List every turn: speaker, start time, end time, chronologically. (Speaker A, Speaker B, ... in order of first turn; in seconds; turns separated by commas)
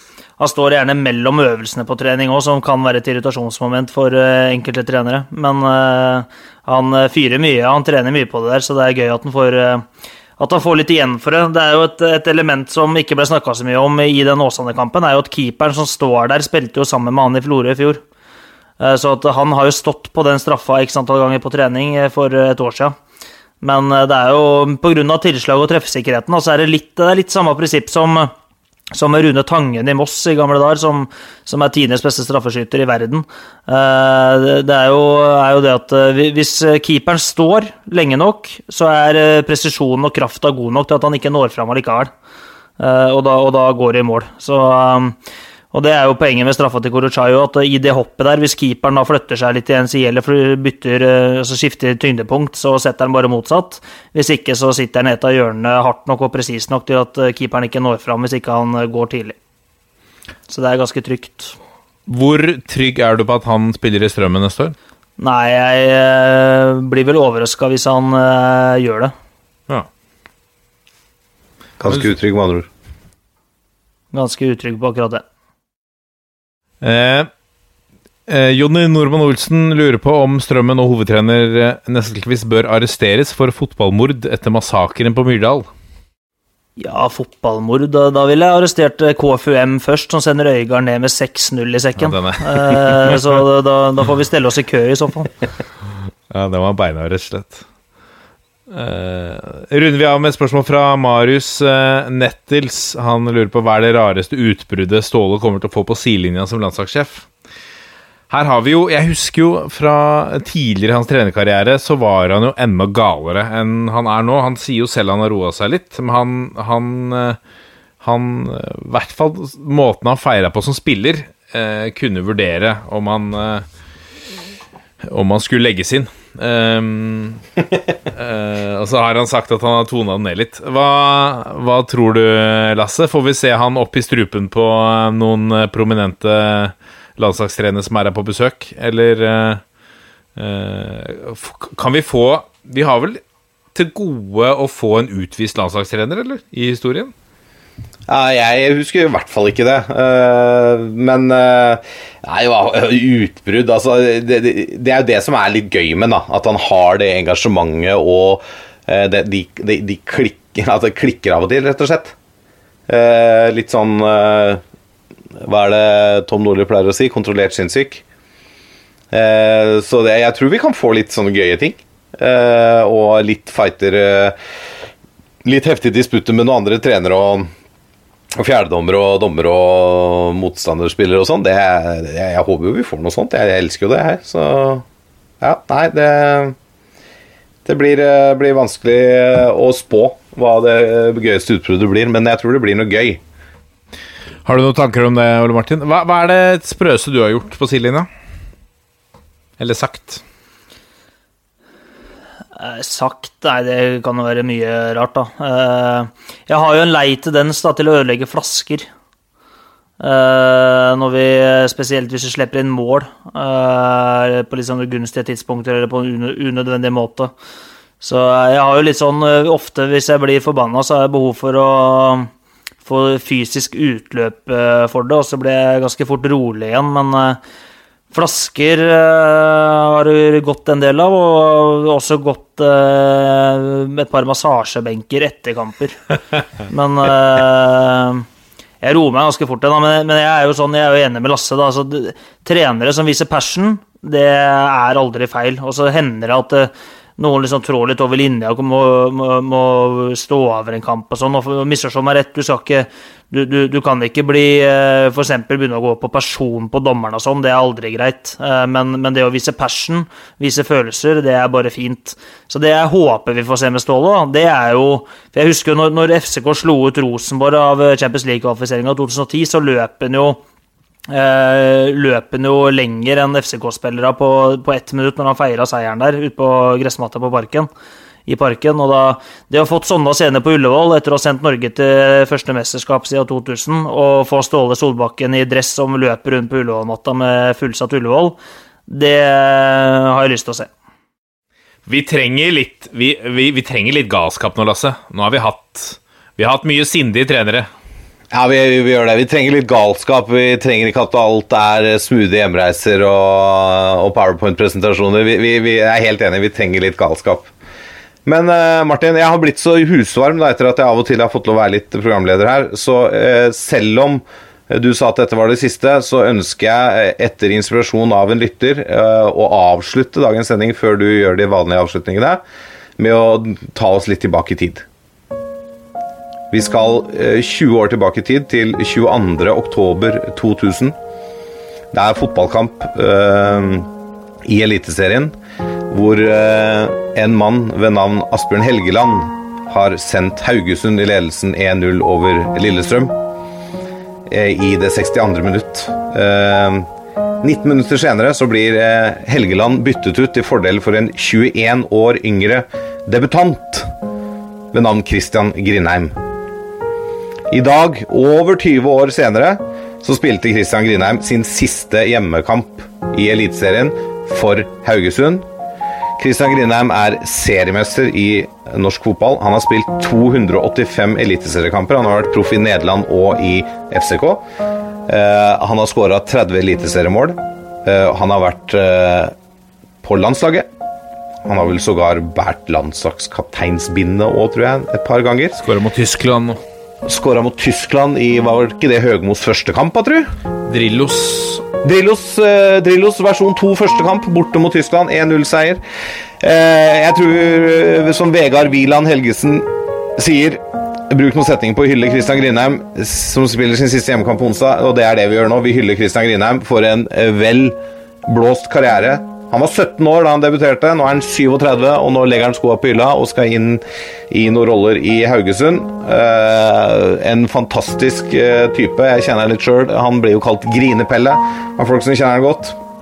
Speaker A: 0.4-9.8, Speaker A: 10.4-18.0, Speaker A: 18.8-22.9, Speaker A: 23.6-28.3, Speaker A: 28.9-42.1, Speaker A: 42.8-45.1, Speaker A: 45.7-59.4, Speaker A: 60.5-61.5, Speaker B: 62.1-64.7, Speaker A: 65.2-69.1, Speaker C: 71.8-72.7, Speaker A: 74.1-75.2, Speaker B: 76.8-77.3, Speaker B: 78.3-85.7, Speaker A: 86.8-95.3, Speaker B: 92.0-93.2, Speaker B: 96.3-97.6, Speaker B: 98.7-107.3, Speaker B: 108.3-117.4, Speaker B: 118.0-123.6, Speaker B: 125.1-127.4, Speaker B: 128.1-139.6, Speaker B: 140.4-143.2, Speaker B: 143.7-147.1, Speaker C: 148.1-162.1, Speaker C: 162.9-164.6, Speaker C: 165.4-168.0, Speaker C: 169.1-174.3, Speaker C: 175.4-177.5, Speaker C: 178.3-184.8, Speaker C: 185.4-186.5, Speaker C: 187.6-193.2, Speaker B: 194.4-198.1, Speaker B: 199.6-200.2, Speaker A: 202.6-208.8, Speaker A: 210.0-217.3, Speaker A: 218.0-222.3, Speaker A: 222.8-227.4, Speaker A: 228.1-236.0, Speaker A: 236.7-238.2, Speaker A: 238.8-270.4, Speaker A: 271.1-277.7, Speaker A: 278.2-290.7, Speaker B: 291.9-297.7, Speaker C: 298.3-307.5, Speaker C: 308.2-322.4, Speaker C: 323.0-324.8, Speaker C: 326.5-330.9, Speaker C: 331.9-333.9, Speaker C: 334.4-335.3, Speaker C: 335.9-343.1, Speaker C: 344.3-346.9, Speaker C: 347.4-353.9, Speaker C: 354.7-356.1, Speaker C: 357.5-365.4, Speaker C: 366.2-374.4, Speaker C: 375.1-379.3, Speaker C: 380.0-380.7, Speaker C: 381.4-385.6, Speaker B: 385.6-386.6, Speaker C: 387.0-390.3, Speaker B: 390.7-391.6, Speaker C: 391.8-395.8, Speaker C: 396.4-422.8